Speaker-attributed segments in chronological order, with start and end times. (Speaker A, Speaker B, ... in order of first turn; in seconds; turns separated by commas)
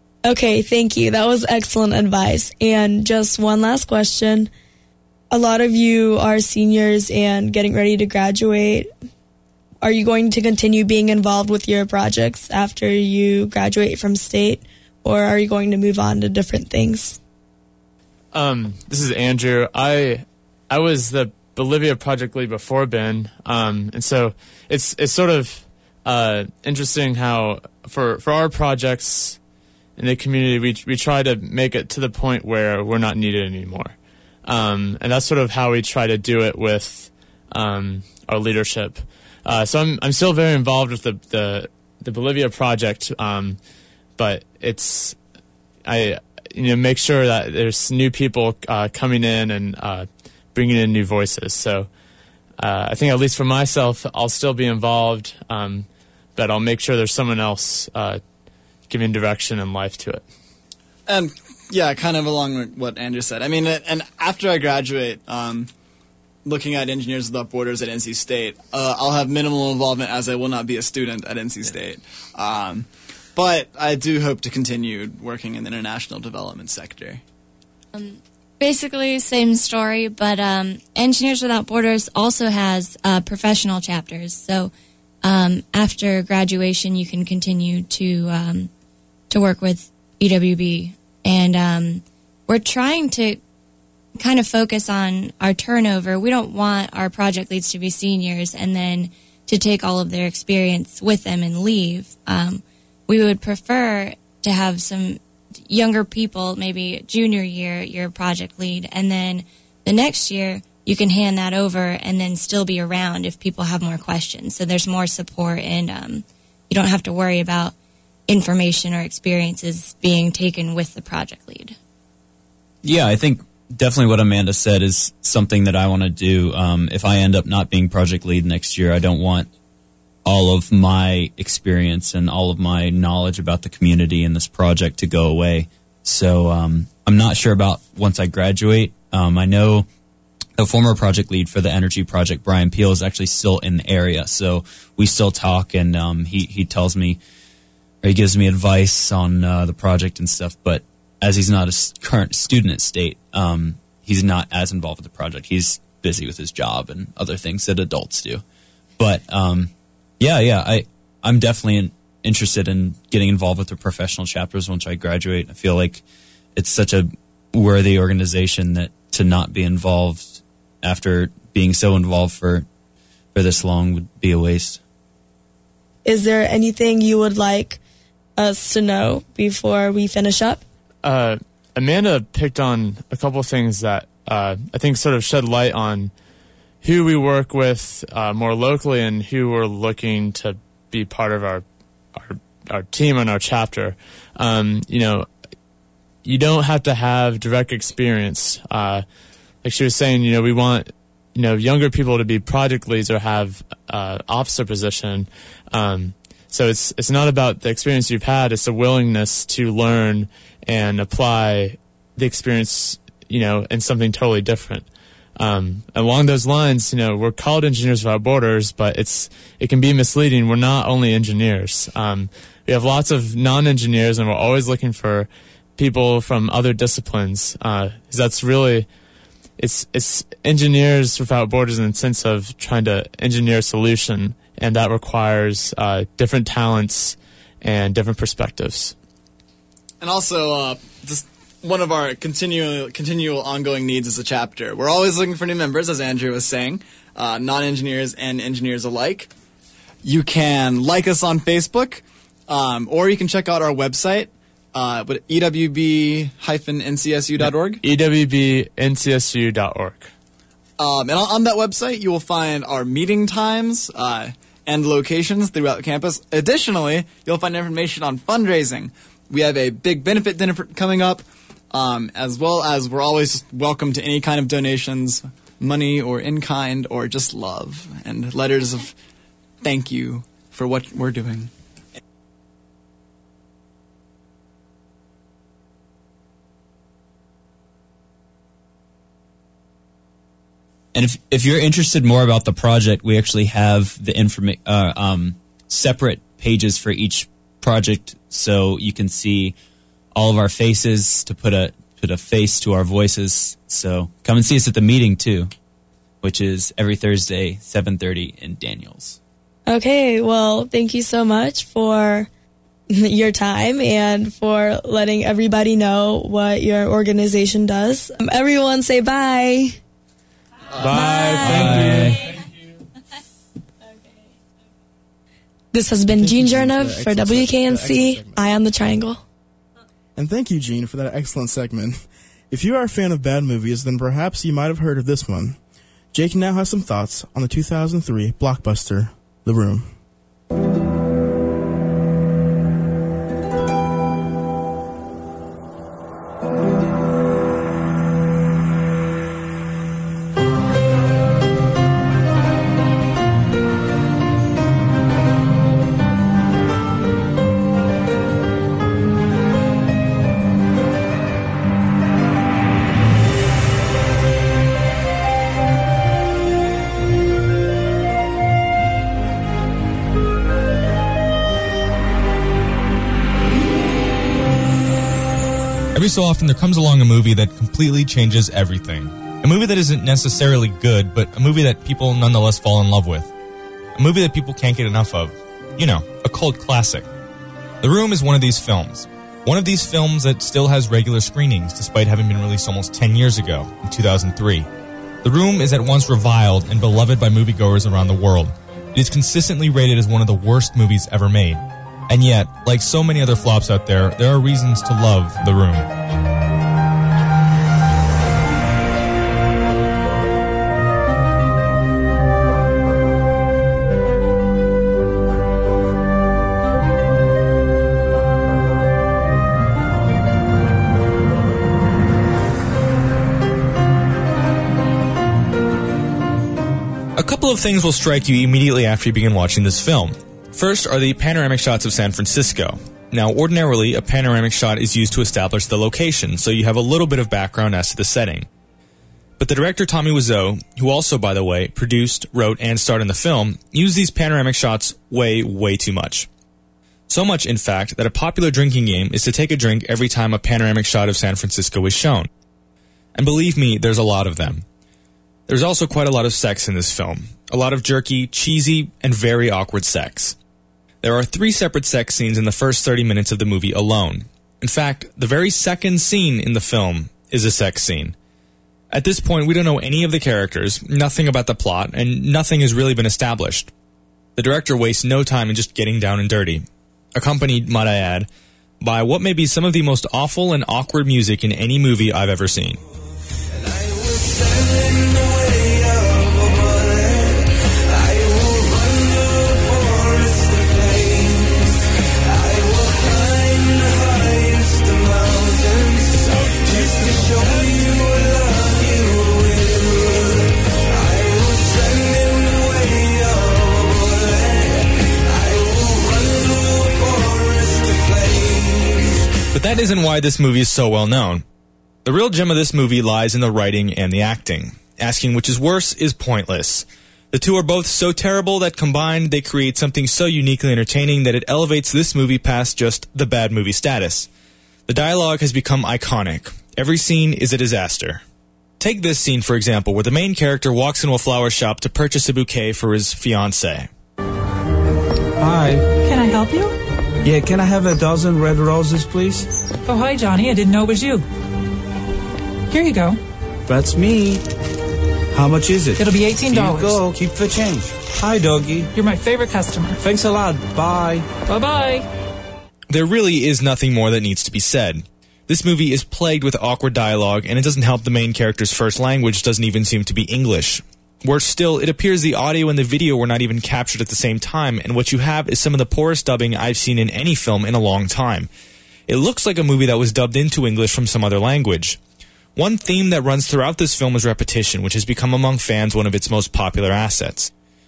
Speaker A: 0.2-4.5, Speaker A: 5.3-8.9, Speaker A: 9.8-17.2, Speaker B: 18.3-29.4, Speaker B: 30.0-43.6, Speaker B: 44.2-45.2, Speaker B: 45.8-51.9, Speaker B: 52.6-58.2, Speaker B: 58.9-60.2, Speaker C: 61.1-65.7, Speaker C: 66.4-77.2, Speaker D: 77.9-84.7, Speaker D: 85.2-88.7, Speaker D: 89.3-93.4, Speaker D: 94.2-117.7, Speaker D: 118.3-121.8, Speaker E: 122.8-129.5, Speaker E: 130.2-139.9, Speaker E: 140.6-147.2, Speaker E: 148.0-158.4, Speaker E: 159.0-166.0, Speaker E: 166.6-172.6, Speaker E: 173.3-174.8, Speaker A: 176.0-177.8, Speaker A: 178.4-180.6, Speaker B: 181.0-186.1, Speaker B: 186.8-195.3, Speaker B: 196.2-199.0, Speaker B: 199.6-228.9, Speaker B: 229.6-238.9, Speaker C: 240.0-249.3, Speaker C: 250.0-257.8, Speaker B: 257.8-260.1, Speaker C: 260.8-278.9, Speaker C: 279.6-281.5, Speaker E: 290.9-299.6, Speaker E: 300.1-305.5, Speaker E: 306.2-309.2, Speaker A: 309.7-312.3, Speaker A: 312.9-319.8, Speaker F: 320.7-322.2, Speaker A: 320.8-322.1, Speaker G: 321.4-322.2, Speaker A: 325.7-329.2, Speaker H: 326.1-328.5, Speaker H: 330.1-332.0, Speaker H: 332.5-335.6, Speaker H: 336.1-339.9, Speaker G: 375.9-383.3, Speaker G: 383.9-387.1, Speaker G: 387.8-394.7, Speaker G: 395.2-405.9, Speaker G: 427.1-438.5, Speaker G: 439.4-446.3, Speaker G: 447.1-452.3, Speaker G: 453.1-454.6, Speaker G: 455.5-460.4, Speaker G: 461.0-468.1, Speaker G: 468.9-473.7, Speaker G: 474.4-478.3, Speaker G: 478.8-482.8, Speaker G: 509.5-511.4, Speaker G: 512.0-524.3, Speaker G: 524.9-528.2, Speaker G: 528.8-533.9, Speaker F: 535.4-535.9, Speaker I: 536.0-536.8, Speaker F: 537.2-539.5, Speaker I: 539.9-541.2, Speaker I: 542.7-543.2, Speaker F: 543.6-544.4, Speaker F: 545.3-548.9, Speaker I: 546.0-547.0, Speaker I: 548.9-550.0, Speaker F: 550.0-551.3, Speaker I: 551.5-552.0, Speaker G: 552.9-568.5, Speaker G: 569.1-572.0, Speaker G: 572.5-577.5